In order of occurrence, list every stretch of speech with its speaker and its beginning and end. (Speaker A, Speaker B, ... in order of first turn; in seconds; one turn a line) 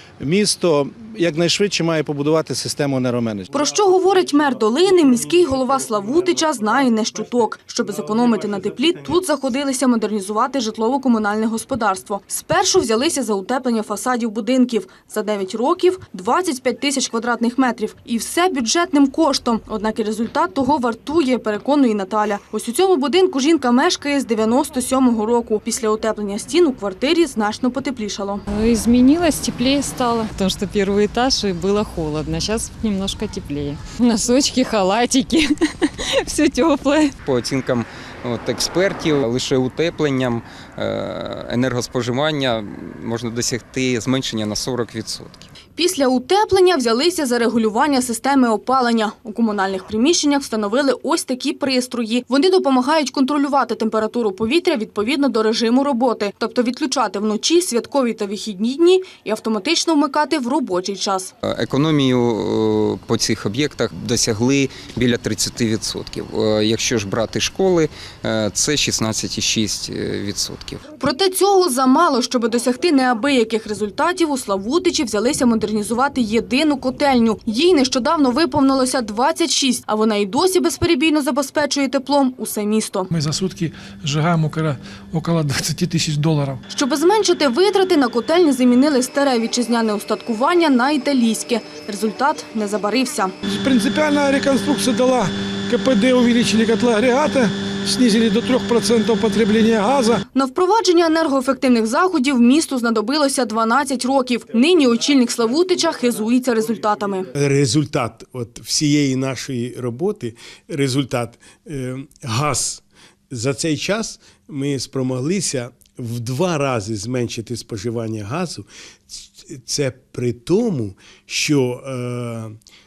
Speaker A: 0.2-3.5
Speaker B: 3.5-9.0
Speaker C: 3.7-28.4
Speaker D: 28.5-35.5
Speaker D: 36.2-37.1
Speaker E: 37.2-45.5
Speaker C: 45.8-61.3
Speaker E: 61.4-70.8
Speaker C: 71.0-83.1
Speaker B: 83.1-86.6
Speaker C: 86.7-93.3
Speaker B: 93.5-100.2
Speaker C: 100.3-107.2
Speaker B: 106.8-107.2
Speaker F: 107.3-122.5